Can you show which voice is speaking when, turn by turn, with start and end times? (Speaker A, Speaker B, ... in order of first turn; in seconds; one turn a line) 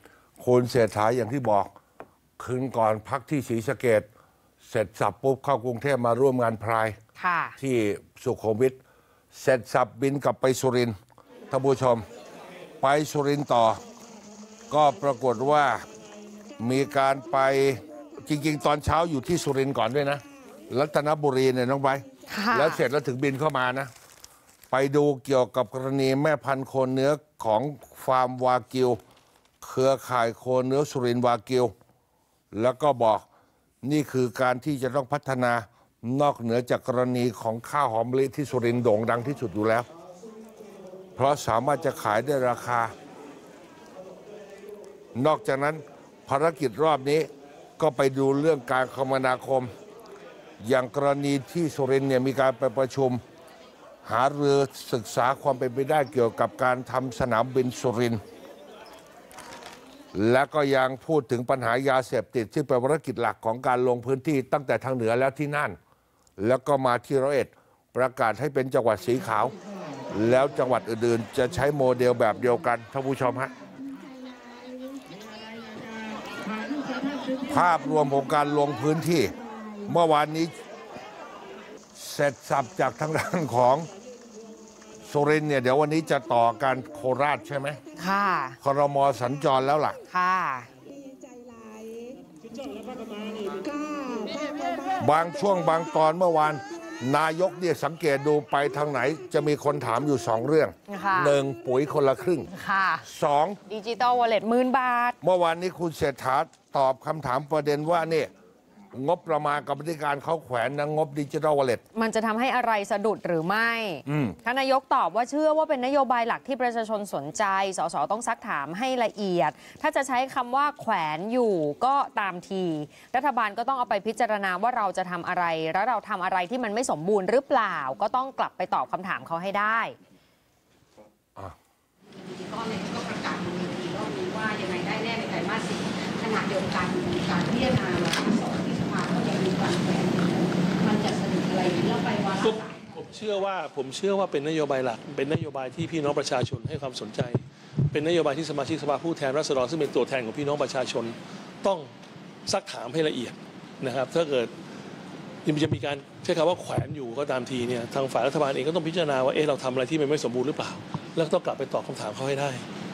Speaker A: 0.4-1.7
Speaker A: 2.4-4.1
Speaker A: 4.6-6.9
Speaker B: 7.2-7.5
Speaker A: 7.6-8.8
Speaker A: 9.3-10.9
Speaker A: 11.5-12.0
Speaker A: 12.8-13.8
Speaker A: 14.7-15.8
Speaker A: 16.6-23.9
Speaker B: 22.3-22.8
Speaker A: 24.7-29.0
Speaker A: 29.6-31.7
Speaker A: 32.5-33.2
Speaker A: 33.8-39.9
Speaker A: 41.1-42.9
Speaker A: 45.1-47.3
Speaker A: 47.8-49.7
Speaker A: 50.6-53.2
Speaker A: 54.0-58.2
Speaker A: 60.1-65.8
Speaker A: 66.4-69.5
Speaker A: 70.1-73.5
Speaker A: 77.4-79.3
Speaker A: 79.9-80.5
Speaker A: 82.0-83.9
Speaker A: 85.1-87.8
Speaker B: 88.0-88.5
Speaker A: 88.6-90.0
Speaker B: 90.1-90.7
Speaker A: 95.0-102.5
Speaker B: 100.9-101.3
Speaker B: 102.5-103.0
Speaker A: 103.0-103.6
Speaker B: 103.7-105.1
Speaker A: 105.2-108.3
Speaker A: 108.9-111.8
Speaker B: 112.0-129.9
Speaker A: 114.0-114.3
Speaker C: 132.1-142.8
Speaker D: 142.4-151.9
Speaker D: 152.4-154.5
Speaker D: 155.4-162.7